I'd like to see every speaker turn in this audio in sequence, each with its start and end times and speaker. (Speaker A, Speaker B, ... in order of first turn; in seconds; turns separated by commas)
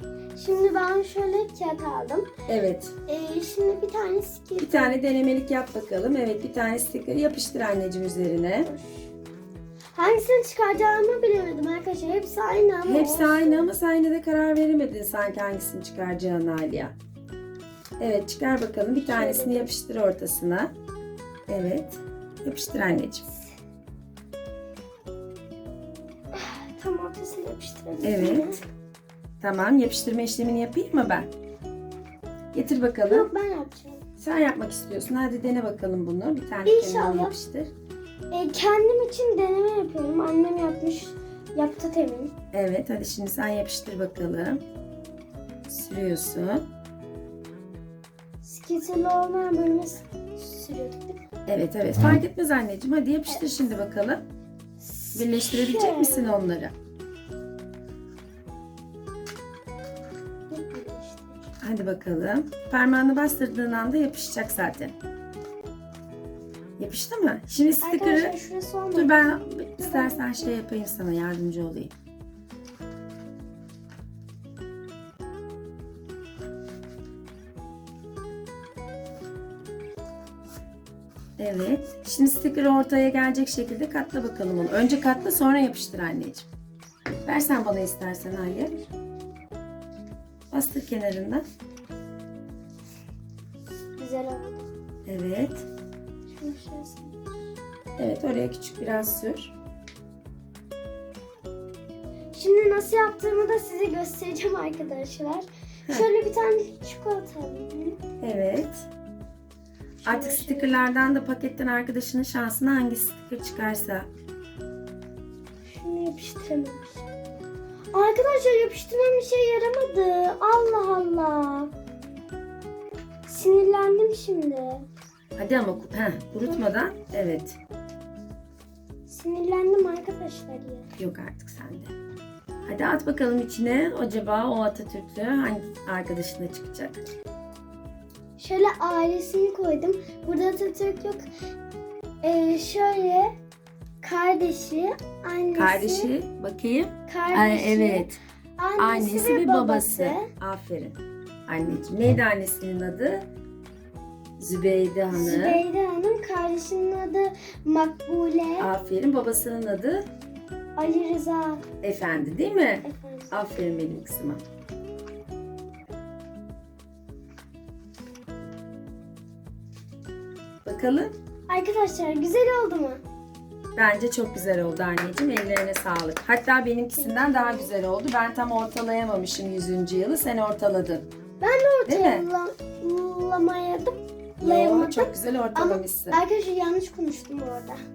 Speaker A: 0.3-2.3, Speaker B: 2.5-2.9, Speaker A: 3.1-5.0, Speaker B: 4.6-8.7, Speaker A: 8.7-9.1, Speaker A: 9.9-13.7, Speaker B: 12.8-16.9, Speaker B: 18.0-20.7, Speaker A: 19.0-19.7, Speaker B: 21.5-23.2, Speaker A: 26.3-28.6, Speaker B: 28.0-28.6, Speaker B: 29.4-31.3, Speaker B: 32.5-33.3, Speaker A: 33.1-34.0, Speaker B: 34.2-37.7, Speaker A: 36.6-37.3, Speaker A: 38.3-42.3, Speaker B: 42.5-44.6, Speaker B: 45.7-46.7, Speaker A: 48.4-51.2, Speaker B: 51.5-54.2, Speaker A: 54.8-56.5, Speaker B: 55.1-56.7, Speaker A: 60.5-61.5, Speaker B: 61.6-64.9, Speaker B: 66.8-68.3, Speaker A: 67.8-70.5, Speaker B: 68.9-71.9, Speaker B: 81.4-86.5, Speaker B: 87.2-88.9, Speaker B: 90.5-91.4, Speaker A: 94.0-94.7, Speaker B: 95.0-95.7, Speaker A: 96.4-97.4, Speaker B: 98.0-99.5, Speaker A: 102.3-108.0, Speaker B: 108.2-108.9, Speaker A: 110.0-110.7, Speaker B: 110.0-114.1, Speaker A: 115.7-117.1, Speaker A: 117.9-121.7, Speaker A: 123.3-124.9, Speaker B: 125.4-127.6, Speaker A: 129.1-130.9, Speaker B: 131.0-131.9, Speaker B: 132.7-137.0, Speaker A: 138.4-141.2, Speaker A: 142.2-143.3, Speaker A: 144.0-146.1, Speaker B: 145.5-148.2, Speaker A: 147.1-150.3, Speaker B: 148.8-153.2, Speaker B: 154.4-155.6, Speaker A: 155.1-158.7, Speaker B: 158.6-160.0, Speaker A: 160.8-161.6, Speaker B: 161.8-164.4, Speaker A: 162.8-163.3, Speaker B: 170.7-171.1, Speaker A: 171.5-173.0, Speaker B: 173.8-181.1, Speaker A: 176.9-177.7, Speaker A: 181.4-187.8, Speaker B: 181.9-182.2, Speaker B: 184.4-186.2